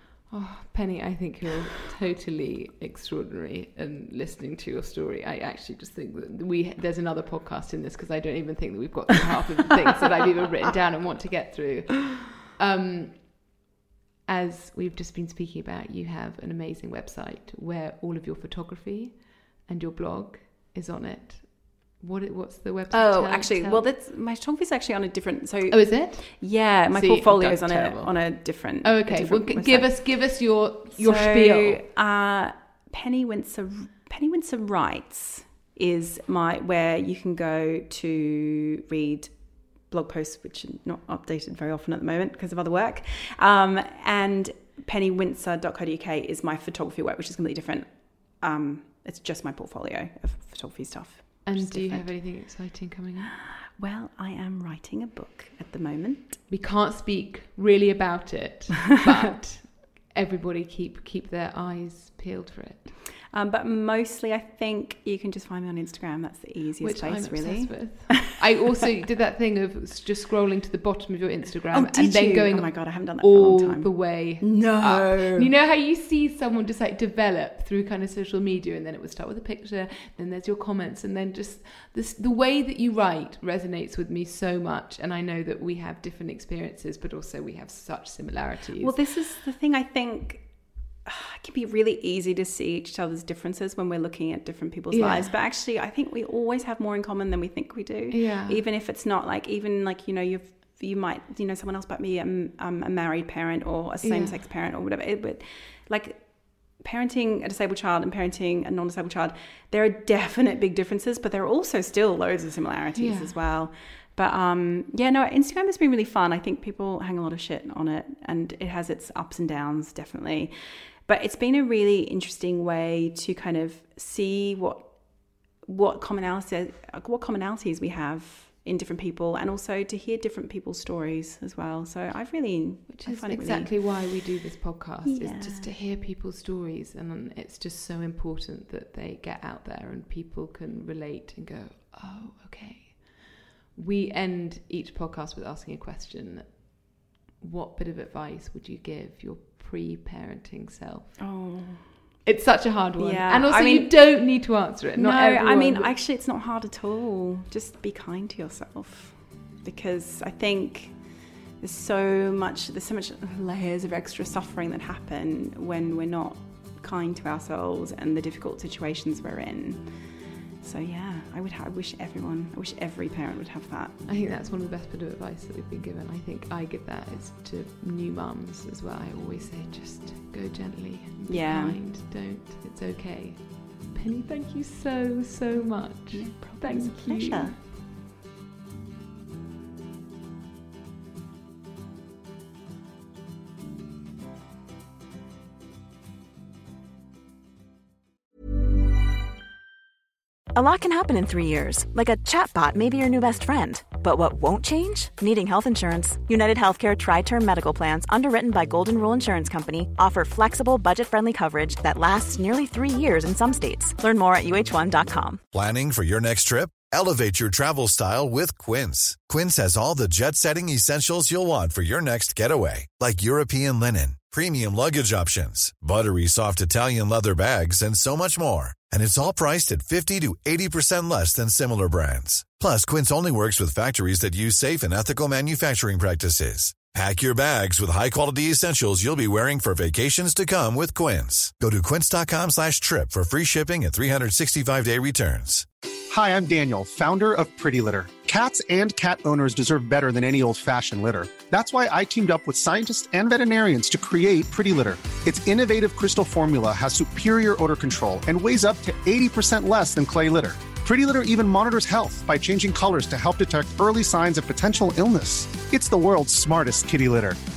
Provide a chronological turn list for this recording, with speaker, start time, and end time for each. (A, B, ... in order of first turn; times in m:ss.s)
0:00.3-0:13.5 A
0:14.3-0:23.8 A
0:22.9-0:30.1 B
0:25.7-0:31.8 A
0:31.0-0:39.4 B
0:39.9-0:52.1 B
0:51.4-0:53.4 A
0:53.3-0:56.4 B
0:56.5-1:02.9 A
1:03.3-1:08.3 B
1:06.8-1:29.0 A
1:11.7-1:15.5 B
1:28.8-2:00.5 B
1:34.9-1:35.3 A
1:38.1-1:38.6 A
1:44.0-1:44.4 A
1:53.0-1:53.3 A
2:01.1-2:05.0 B
2:05.6-2:14.0 B
2:12.9-2:26.8 A
2:15.0-2:15.7 B
2:27.4-2:31.2 A
2:31.2-2:32.0 B
2:32.2-2:35.9 A
2:33.0-2:54.0 B
2:54.1-3:07.6 A
3:01.3-3:01.8 B
3:06.1-3:07.6 B
3:20.5-3:35.4 C
3:35.5-4:05.7 D
4:06.1-4:27.4 E